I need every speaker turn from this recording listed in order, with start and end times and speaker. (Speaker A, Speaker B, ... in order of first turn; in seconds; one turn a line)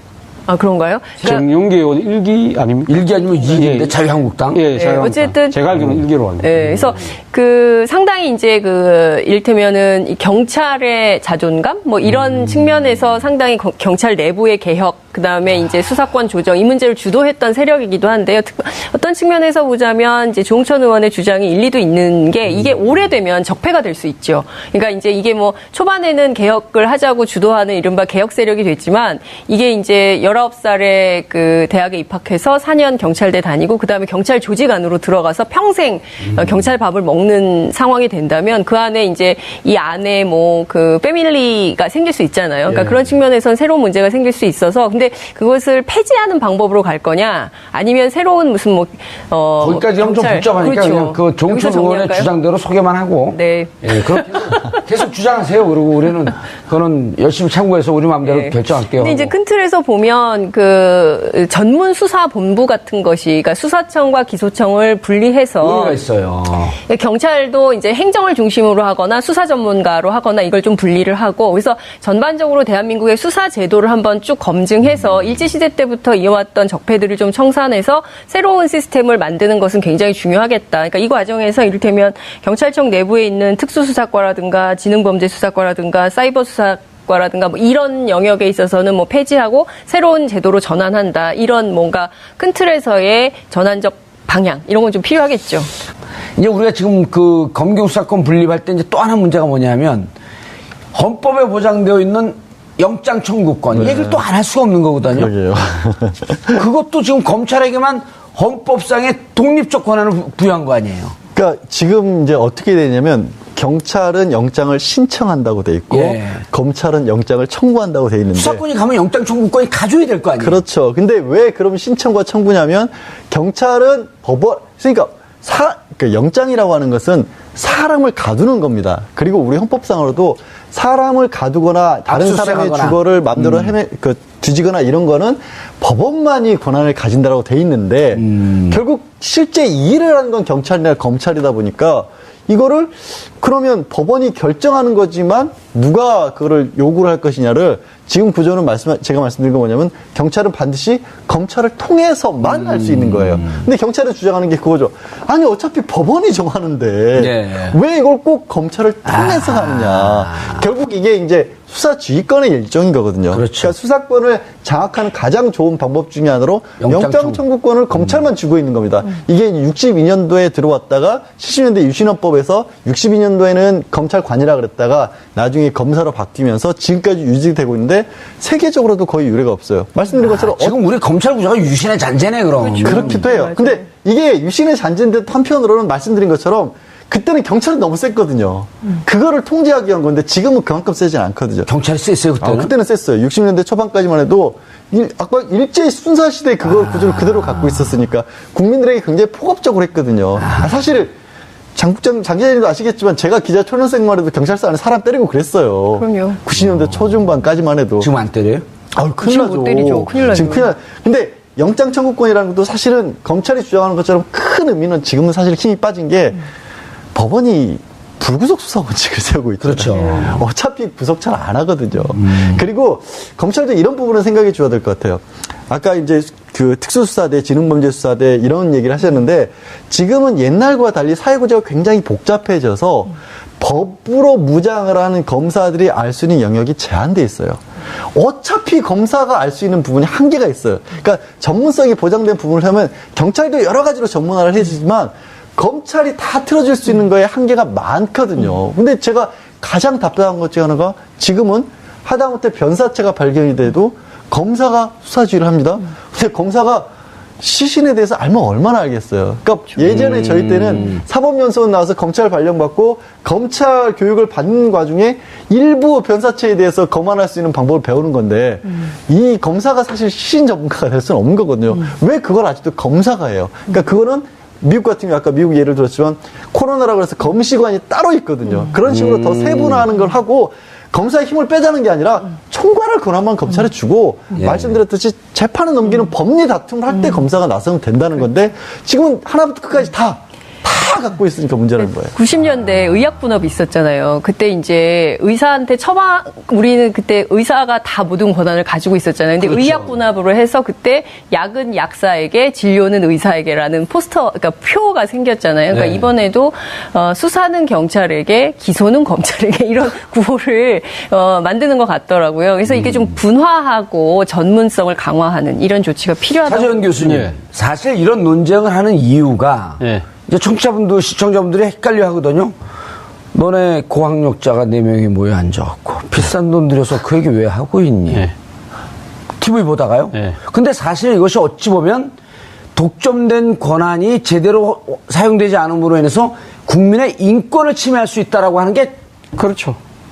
Speaker A: 0.5-1.4
Speaker B: 1.2-4.0
Speaker C: 2.9-4.6
Speaker B: 4.5-6.6
Speaker A: 4.7-5.6
Speaker A: 6.4-52.3
Speaker C: 42.7-43.0
Speaker C: 49.6-59.3
Speaker A: 53.3-54.8
Speaker A: 58.2-66.0
Speaker C: 65.6-66.8
Speaker A: 66.8-95.7
Speaker C: 96.4-100.1
Speaker C: 100.9-105.3
Speaker D: 103.7-104.2
Speaker D: 105.1-106.6
Speaker C: 106.5-111.2
Speaker D: 111.3-118.6
Speaker C: 115.9-116.4
Speaker C: 118.3-120.6
Speaker D: 120.4-180.8
Speaker C: 132.1-133.7
Speaker C: 138.2-138.8
Speaker C: 152.4-153.6
Speaker C: 157.2-157.8
Speaker C: 159.1-160.6
Speaker C: 163.3-163.7
Speaker C: 166.8-167.4
Speaker C: 180.2-183.2
Speaker A: 182.7-183.8
Speaker D: 182.8-191.7
Speaker C: 191.7-192.7
Speaker D: 192.4-201.1
Speaker C: 196.8-197.8
Speaker D: 201.7-208.1
Speaker A: 205.9-206.4
Speaker C: 208.0-208.6
Speaker D: 208.9-216.4
Speaker A: 209.2-210.7
Speaker D: 217.1-237.6
Speaker C: 219.6-220.4
Speaker C: 222.2-222.6
Speaker D: 238.1-256.9
Speaker D: 257.4-292.1
Speaker C: 259.9-261.0
Speaker C: 278.9-279.9
Speaker C: 284.4-284.7
Speaker A: 292.1-316.8
Speaker C: 299.4-299.9
Speaker C: 305.7-306.1
Speaker C: 316.4-322.5
Speaker B: 317.0-317.3
Speaker C: 323.3-328.3
Speaker C: 329.4-332.1
Speaker C: 332.7-338.9
Speaker B: 339.4-339.8